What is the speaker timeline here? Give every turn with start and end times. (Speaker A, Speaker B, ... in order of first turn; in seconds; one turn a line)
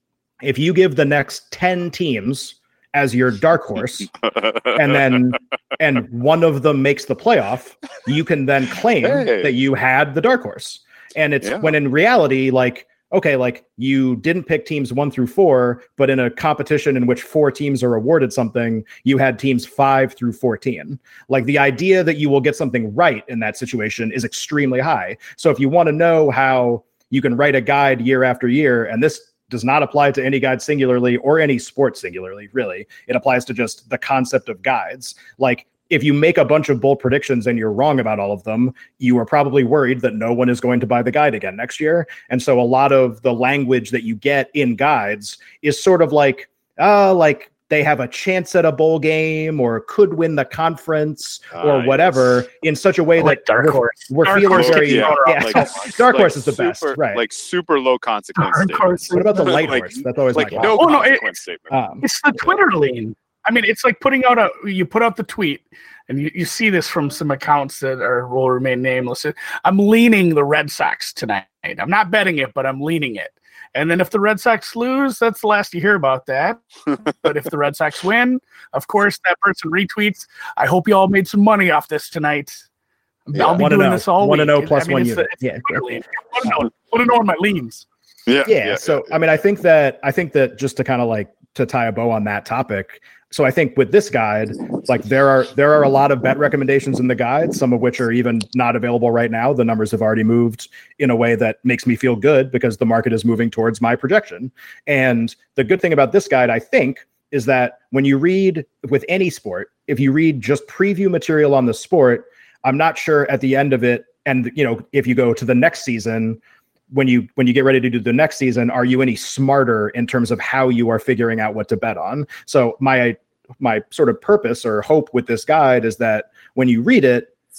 Speaker A: 0.4-4.1
Speaker B: 4.3-4.8
Speaker A: 4.7-57.2
Speaker B: 9.0-9.5
Speaker B: 11.4-11.7
Speaker B: 51.5-52.3
Speaker C: 53.2-55.9
Speaker B: 54.5-61.7
Speaker C: 58.4-59.6
Speaker A: 59.1-61.0
Speaker C: 60.6-61.3
Speaker A: 61.7-62.0
Speaker C: 62.0-82.7
Speaker C: 83.3-87.8
Speaker B: 83.3-83.6
Speaker A: 83.5-86.0
Speaker B: 88.3-89.1
Speaker A: 88.5-116.4
Speaker A: 116.9-127.3